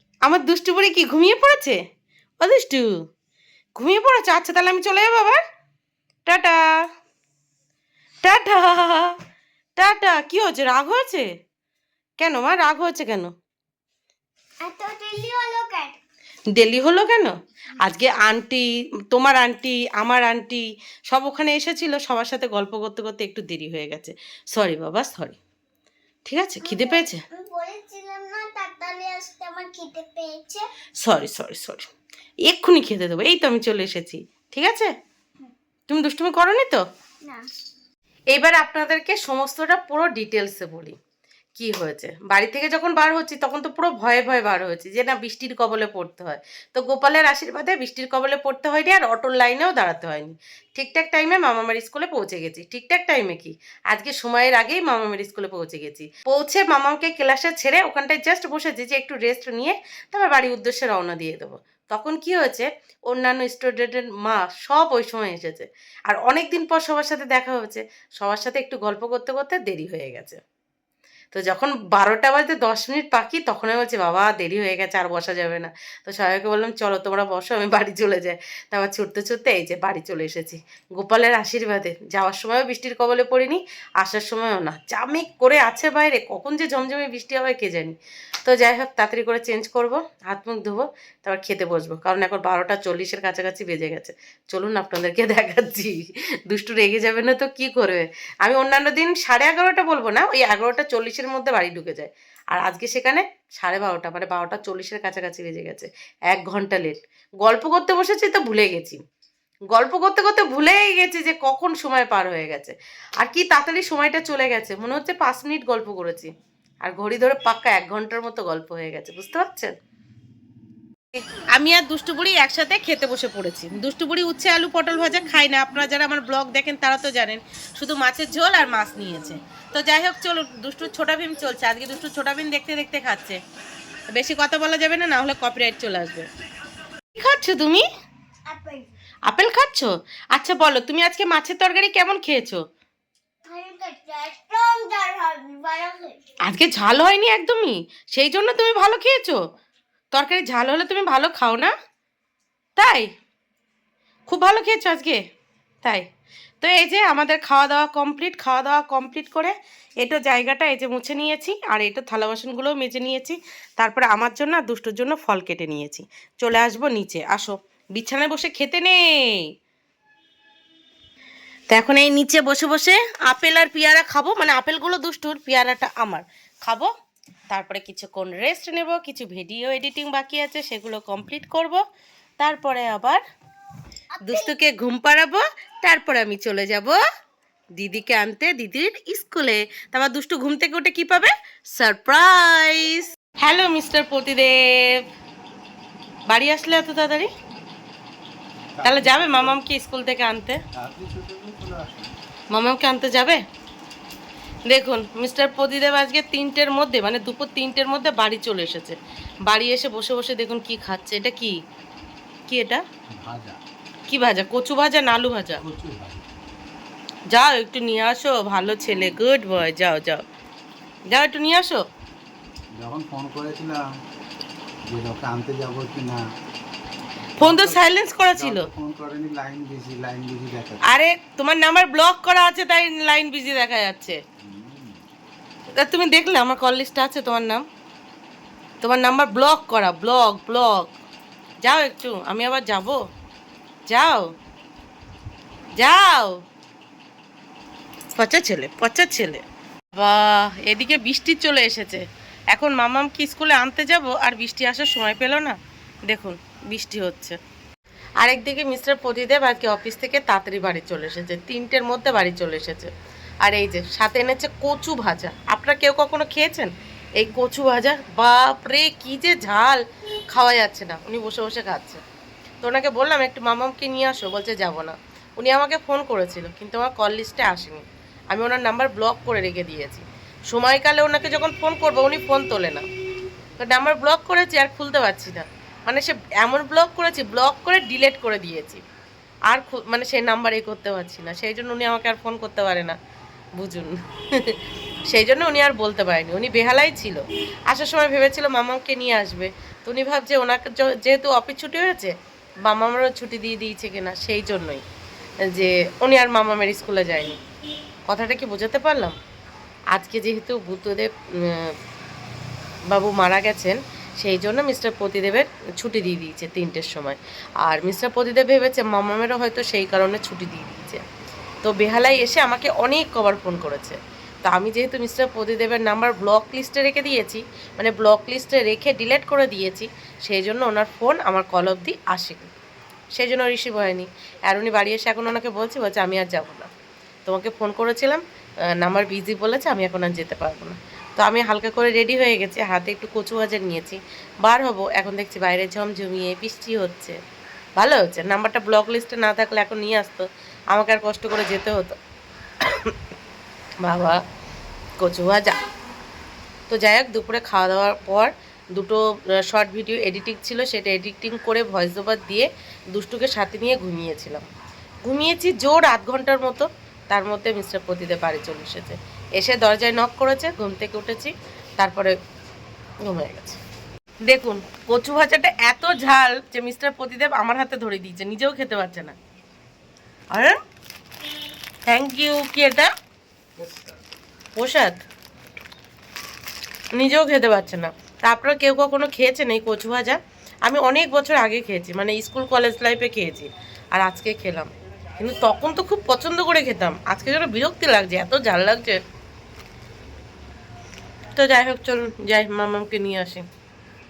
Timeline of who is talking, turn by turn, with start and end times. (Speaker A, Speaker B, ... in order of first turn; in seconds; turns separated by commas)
Speaker A: 0.2-1.8, Speaker A: 2.4-2.9, Speaker A: 3.8-5.4, Speaker A: 6.3-6.8, Speaker A: 8.2-9.2, Speaker A: 9.8-11.2, Speaker A: 12.2-13.3, Speaker B: 14.6-16.0, Speaker A: 16.5-25.4, Speaker A: 26.2-27.2, Speaker B: 26.6-30.6, Speaker A: 31.0-31.9, Speaker A: 32.5-34.9, Speaker A: 35.9-36.8, Speaker A: 38.3-41.0, Speaker A: 41.5-70.4, Speaker A: 71.3-109.0, Speaker A: 109.7-116.3, Speaker A: 116.8-119.7, Speaker A: 121.1-133.4, Speaker A: 134.1-136.3, Speaker A: 137.1-137.8, Speaker B: 138.5-138.9, Speaker A: 139.2-142.6, Speaker B: 143.4-146.2, Speaker A: 146.4-149.4, Speaker A: 150.1-151.7, Speaker A: 152.8-153.1, Speaker A: 154.3-155.2, Speaker A: 156.6-169.5, Speaker A: 171.7-176.9, Speaker A: 177.5-181.8, Speaker A: 182.4-183.2, Speaker B: 184.2-184.5, Speaker A: 184.2-187.0, Speaker A: 187.8-195.0, Speaker A: 196.3-197.3, Speaker C: 198.8-199.6, Speaker A: 198.8-200.6, Speaker C: 200.8-202.1, Speaker A: 202.5-203.4, Speaker A: 204.7-211.6, Speaker A: 212.5-212.8, Speaker C: 213.1-213.6, Speaker A: 214.1-215.6, Speaker C: 215.6-216.3, Speaker A: 217.3-220.2, Speaker A: 221.1-221.8, Speaker C: 222.8-223.8, Speaker C: 224.9-226.2, Speaker A: 227.4-228.7, Speaker C: 227.4-227.8, Speaker C: 228.3-230.8, Speaker A: 230.8-234.2, Speaker C: 234.4-235.0, Speaker A: 235.8-237.6, Speaker A: 238.8-240.9, Speaker A: 241.6-243.0, Speaker A: 243.9-244.3, Speaker A: 245.8-246.4, Speaker A: 248.2-249.4, Speaker A: 249.9-255.6, Speaker A: 256.1-257.4, Speaker A: 258.2-262.9, Speaker A: 263.4-272.0, Speaker A: 272.6-282.9, Speaker A: 283.6-288.8, Speaker A: 289.5-293.0, Speaker A: 293.6-294.6, Speaker A: 295.1-302.1, Speaker A: 302.6-304.8, Speaker A: 305.5-307.4, Speaker A: 308.1-309.1, Speaker A: 309.9-311.8, Speaker A: 312.9-321.0, Speaker A: 321.6-332.5, Speaker A: 333.1-336.7, Speaker A: 337.2-338.2, Speaker A: 338.8-347.2, Speaker A: 347.8-351.9, Speaker A: 352.6-352.9, Speaker A: 353.8-354.2, Speaker A: 355.0-355.6, Speaker A: 356.7-364.4, Speaker A: 365.1-372.1, Speaker A: 373.1-373.6, Speaker A: 374.2-379.1, Speaker A: 380.3-380.6, Speaker A: 381.9-382.9, Speaker C: 383.6-383.9, Speaker A: 384.6-385.0, Speaker A: 386.9-399.0, Speaker A: 401.4-403.4